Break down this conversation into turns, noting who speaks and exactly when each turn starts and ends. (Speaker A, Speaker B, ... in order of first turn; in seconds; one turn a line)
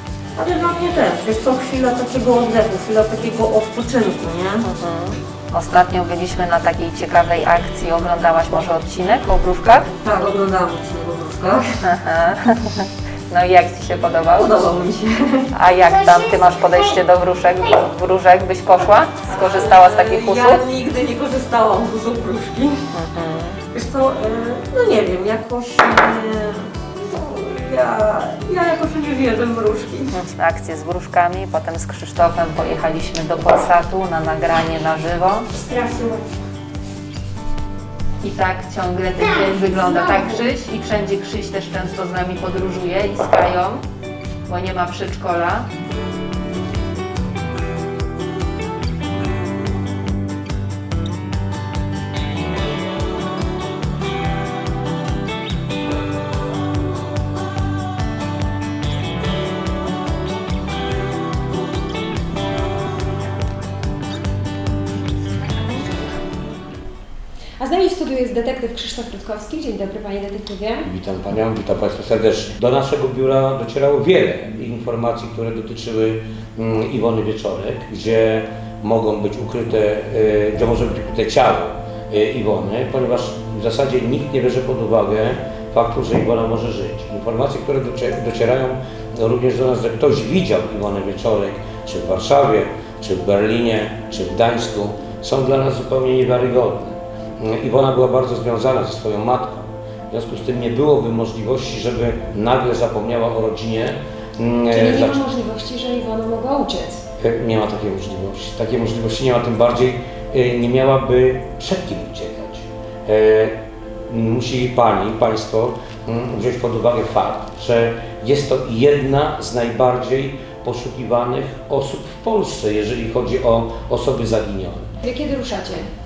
Speaker A: 0.4-4.7
Speaker B: 4.6-9.9
Speaker A: 10.0-11.7
Speaker B: 11.8-14.5
Speaker A: 14.4-15.5
Speaker B: 15.5-20.6
Speaker C: 15.9-17.0
Speaker A: 19.3-22.9
Speaker B: 22.9-23.6
Speaker A: 23.7-30.1
Speaker B: 30.1-35.5
Speaker C: 35.6-36.3
Speaker B: 38.2-43.8
Speaker C: 39.2-40.4
Speaker B: 44.5-45.7
Speaker D: 67.6-70.9
Speaker E: 70.8-105.2
Speaker D: 104.7-107.0
Speaker E: 107.2-113.6
Speaker E: 114.1-124.9
Speaker D: 125.0-125.9